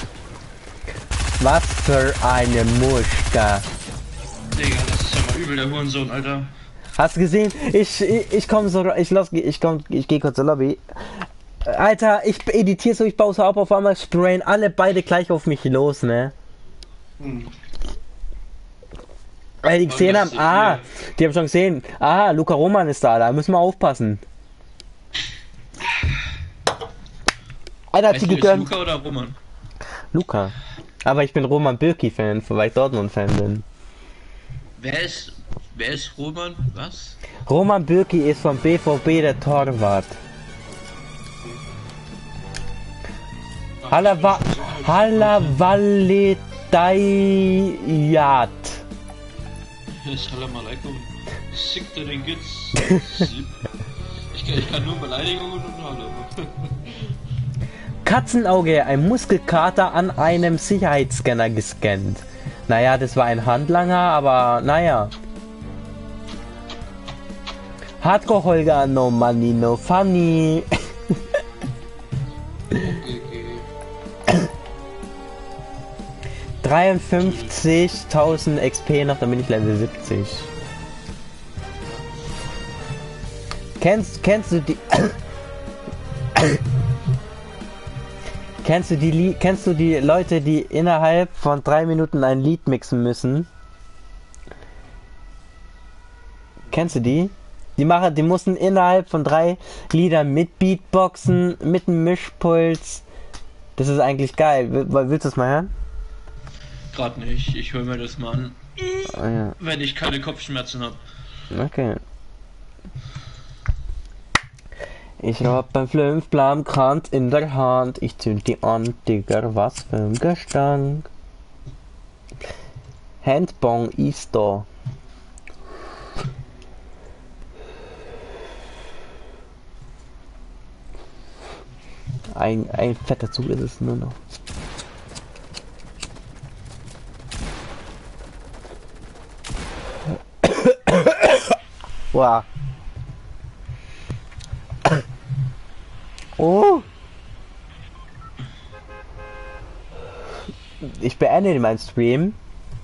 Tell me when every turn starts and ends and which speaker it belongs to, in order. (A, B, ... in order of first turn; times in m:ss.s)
0:01.4-0:03.6 A
0:04.5-0:06.5 B
0:07.0-0:16.3 A
0:17.2-0:17.5 B
0:19.6-0:24.2 A
0:19.9-0:20.9 B
0:27.9-0:28.7 A
0:28.1-0:29.4 B
0:30.1-0:33.6 A
0:34.8-0:37.2 B
0:37.4-0:40.2 A
0:43.8-0:45.6 B
0:43.9-0:48.8 A
0:50.0-0:53.6 B
0:54.3-0:57.1 B
0:58.0-1:05.1 A
1:08.0-1:10.7 A
1:12.7-1:13.7 B
1:16.6-1:20.5 A
1:17.2-1:17.5 B
1:21.8-1:22.4 B
1:23.8-1:25.2 A
1:28.6-1:33.5 A
1:36.7-1:43.0 A
1:43.8-1:45.7 A
1:46.9-1:51.0 B
1:49.1-1:49.6 A
1:51.5-1:52.0 A
1:55.2-2:01.1 A
2:03.2-2:04.6 A
2:12.3-2:14.2 A
2:20.4-2:21.3 A
2:22.1-2:22.5 A
2:26.4-2:26.9 A
2:30.8-2:32.4 A